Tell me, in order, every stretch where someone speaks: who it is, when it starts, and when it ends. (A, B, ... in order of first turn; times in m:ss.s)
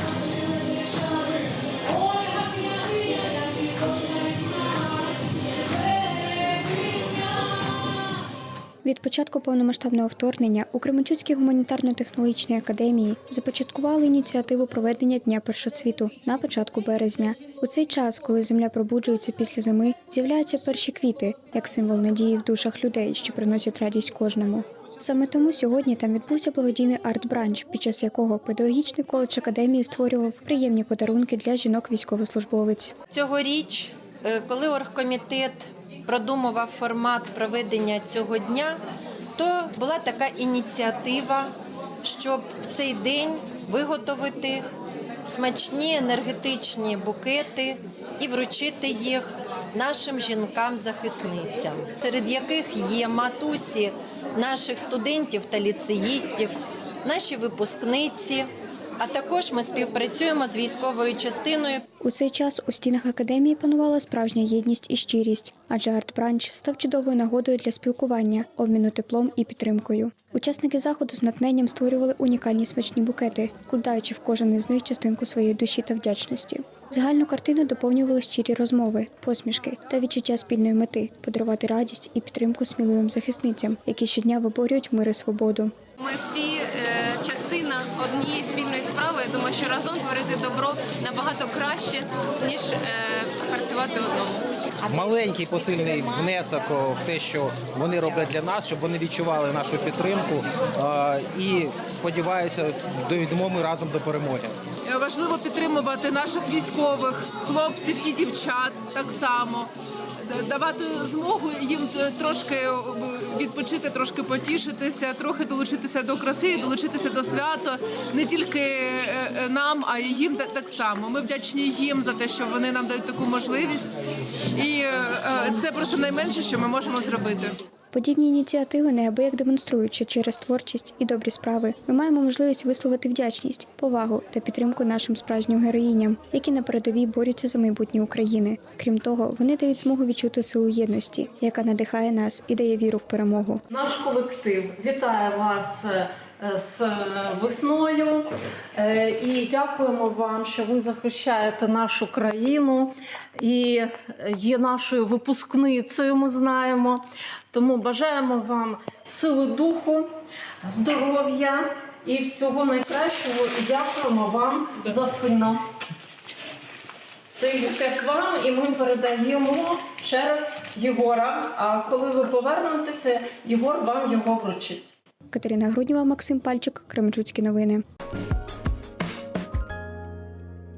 0:08.8-0:32.9 A
0:33.1-0:38.8 B
0:39.4-0:41.5 B
0:42.0-0:44.6 B
0:45.2-1:01.8 B
1:02.0-1:25.7 A
1:26.0-1:34.3 C
1:34.9-1:44.5 D
1:44.8-1:49.7 E
1:50.3-2:03.9 E
2:04.6-2:07.5 E
2:07.9-2:23.6 A
2:23.7-2:40.1 F
2:40.6-2:45.6 F
2:47.3-2:54.9 F
2:55.3-2:57.8 A